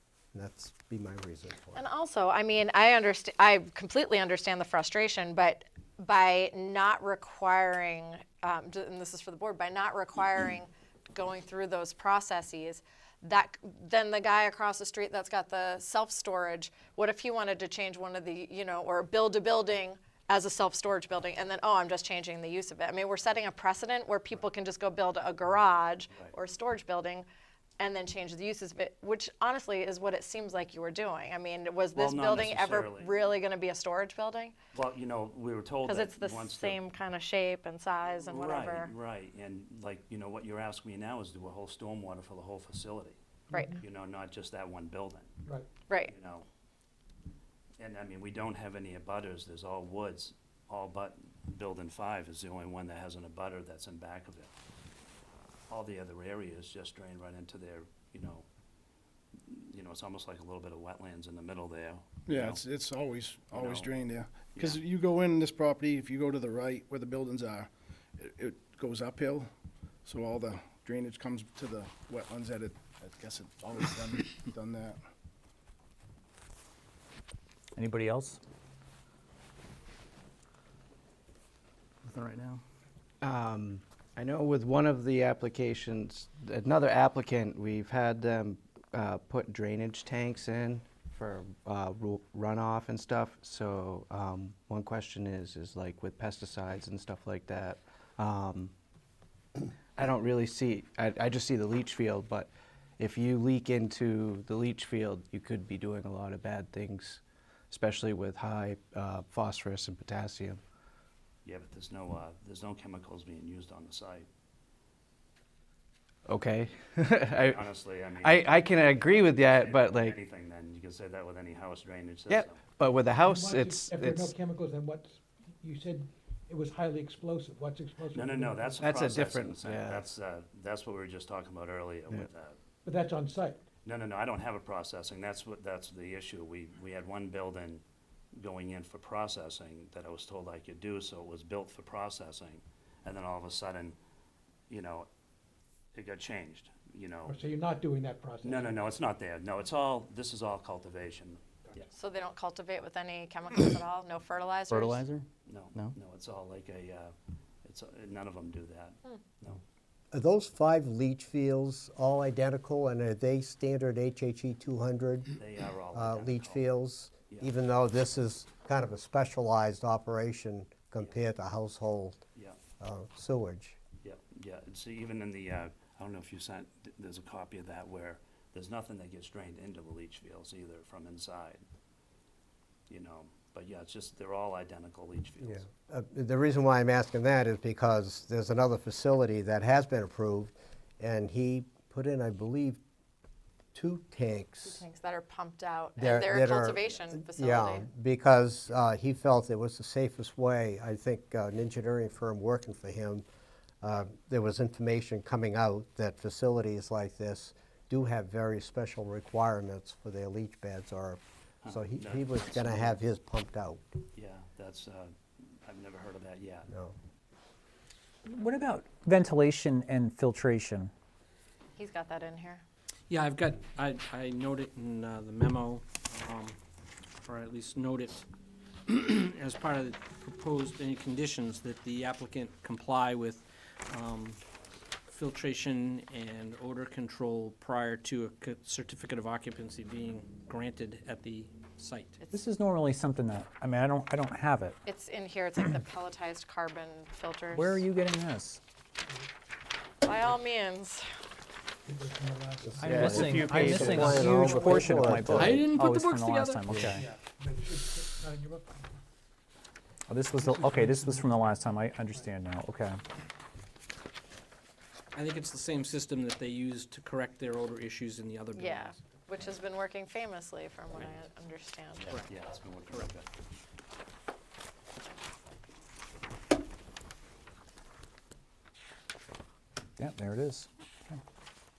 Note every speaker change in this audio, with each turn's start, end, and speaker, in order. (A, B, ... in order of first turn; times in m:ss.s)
0:00.3-0:01.8 A
0:01.7-0:27.3 B
0:27.8-0:34.6 B
0:32.0-0:33.2 C
0:34.7-0:36.8 C
0:35.8-0:38.9 B
0:38.1-0:43.2 C
0:43.5-0:43.8 B
0:43.8-0:45.3 C
0:45.5-0:45.7 D
0:45.9-0:46.1 B
0:46.0-0:46.5 C
0:47.8-0:54.5 C
0:55.7-0:58.5 C
0:59.5-1:02.6 C
1:02.3-1:09.5 E
1:03.5-1:03.9 C
1:04.5-1:04.8 C
1:10.1-1:15.0 E
1:17.8-1:18.4 F
1:22.1-1:22.6 G
1:23.2-1:38.7 H
1:40.0-1:47.2 H
1:47.7-1:50.6 H
1:51.4-1:54.3 C
1:56.3-1:57.6 H
1:57.3-2:02.6 C
1:58.2-2:00.2 H
2:02.3-2:04.3 H
2:03.0-2:09.1 D
2:08.1-2:12.6 C
2:08.8-2:10.0 H
2:12.8-2:13.6 D
2:13.8-2:17.8 C
2:18.3-2:24.0 C
2:24.7-2:25.1 C
2:26.0-2:27.4 C
2:27.3-2:28.8 D
2:28.4-2:31.8 C
2:31.9-2:35.1 B
2:35.5-2:39.6 C
2:40.1-2:45.3 A
2:45.4-2:46.7 C
2:45.9-2:52.2 A
2:52.8-2:53.8 A
2:54.0-3:01.6 C
3:02.9-3:05.6 C
3:05.4-3:12.8 A
3:13.7-3:14.8 A
3:14.6-3:17.9 B
3:16.0-3:23.2 A
3:23.8-3:33.8 A
3:31.6-3:33.0 C
3:34.1-3:36.7 C
3:36.7-3:37.0 A
3:38.3-3:40.9 F
3:41.8-3:42.6 B
3:43.1-3:46.6 G
3:47.2-3:48.2 G
3:48.9-3:54.4 G
3:55.1-4:02.2 G
4:02.3-4:04.8 F
4:04.9-4:07.8 B
4:07.5-4:08.6 F
4:10.0-4:11.1 B
4:11.9-4:15.5 D
4:12.8-4:15.6 A
4:12.8-4:17.0 F
4:13.3-4:13.7 H
4:15.4-4:16.7 G
4:17.4-4:18.9 D
4:20.1-4:23.0 F
4:20.4-4:21.5 D
4:25.1-4:29.1 G
4:28.5-4:32.1 B
4:30.9-4:31.2 C
4:32.0-4:33.3 C
4:32.9-4:33.1 G
4:40.0-4:41.2 F